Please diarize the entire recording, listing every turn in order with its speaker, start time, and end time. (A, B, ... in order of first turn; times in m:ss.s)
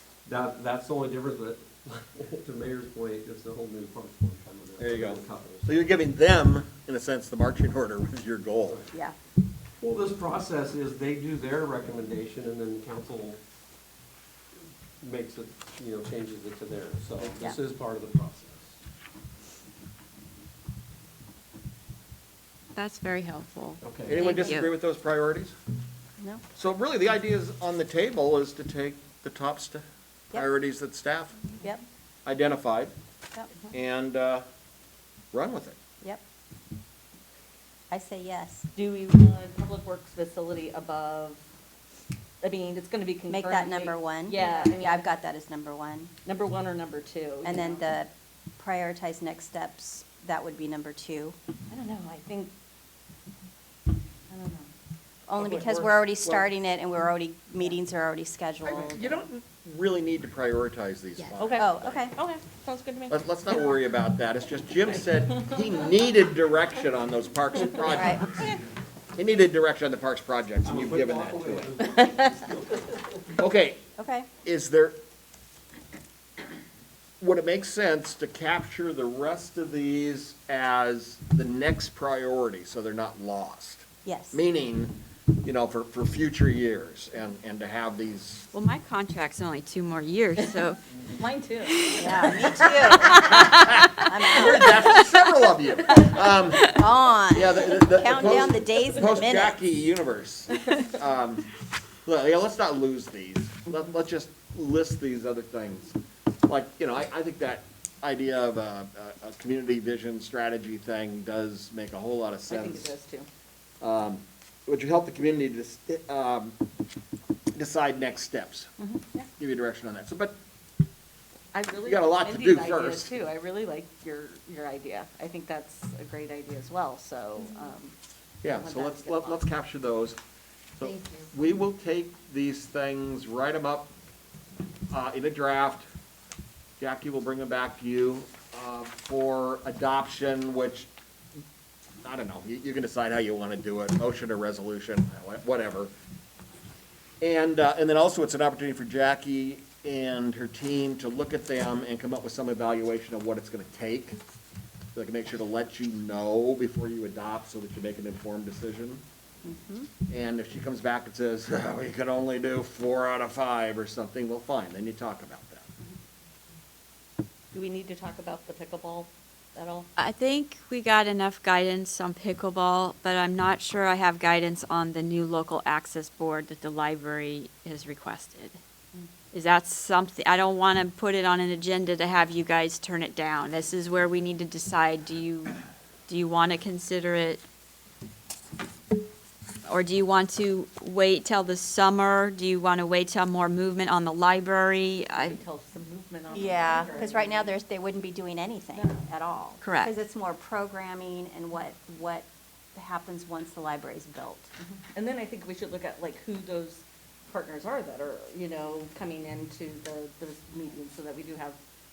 0:00.2-0:06.0 A
0:04.8-0:08.9 B
0:09.8-0:13.4 A
0:15.0-0:18.8 A
0:22.7-0:24.7 C
0:23.8-0:24.2 A
0:24.0-0:25.5 B
0:26.5-0:31.5 B
0:32.2-0:32.9 B
0:33.7-0:34.4 B
0:35.3-0:35.8 B
0:37.9-0:38.7 D
0:38.7-0:41.4 E
0:42.4-0:45.1 E
0:43.3-0:46.1 D
0:46.2-0:47.8 E
0:47.4-0:51.4 D
0:51.7-0:52.5 E
0:54.3-0:54.7 E
0:55.3-0:59.2 D
0:55.4-0:56.5 B
0:58.6-1:02.0 B
1:01.4-1:03.8 E
1:01.6-1:02.2 D
1:03.1-1:08.5 B
1:05.2-1:05.9 E
1:07.6-1:08.6 E
1:07.8-1:08.3 D
1:09.1-1:11.8 B
1:10.6-1:13.2 A
1:11.8-1:12.4 E
1:13.4-1:13.8 B
1:14.0-1:14.3 D
1:14.4-1:15.0 B
1:17.2-1:28.5 B
1:24.0-1:24.4 D
1:28.5-1:30.8 C
1:31.1-1:32.6 E
1:31.6-1:34.8 C
1:32.0-1:34.8 D
1:32.9-1:36.7 B
1:36.6-1:39.6 D
1:37.3-1:41.5 B
1:42.0-1:53.0 B
1:52.5-1:53.3 E
1:53.8-1:56.6 B
1:57.5-1:58.7 B
1:58.8-1:59.3 E
1:59.4-2:00.4 B
2:01.5-2:07.9 E
2:01.8-2:03.1 B
2:08.4-2:10.2 B
2:08.4-2:09.4 E
2:10.8-2:13.9 B
2:14.9-2:15.9 B
2:16.8-2:20.9 B
2:22.0-2:25.9 B
2:27.2-2:34.2 B
2:34.9-2:39.0 B
2:39.4-2:39.9 D
2:40.1-2:45.7 B
2:47.5-2:49.9 E
2:50.0-2:58.6 C
2:59.3-3:07.4 C
3:09.6-3:15.4 C
3:15.1-3:17.6 E
3:16.3-3:24.5 D
3:18.7-3:19.0 E
3:19.6-3:19.9 C
3:24.6-3:31.6 E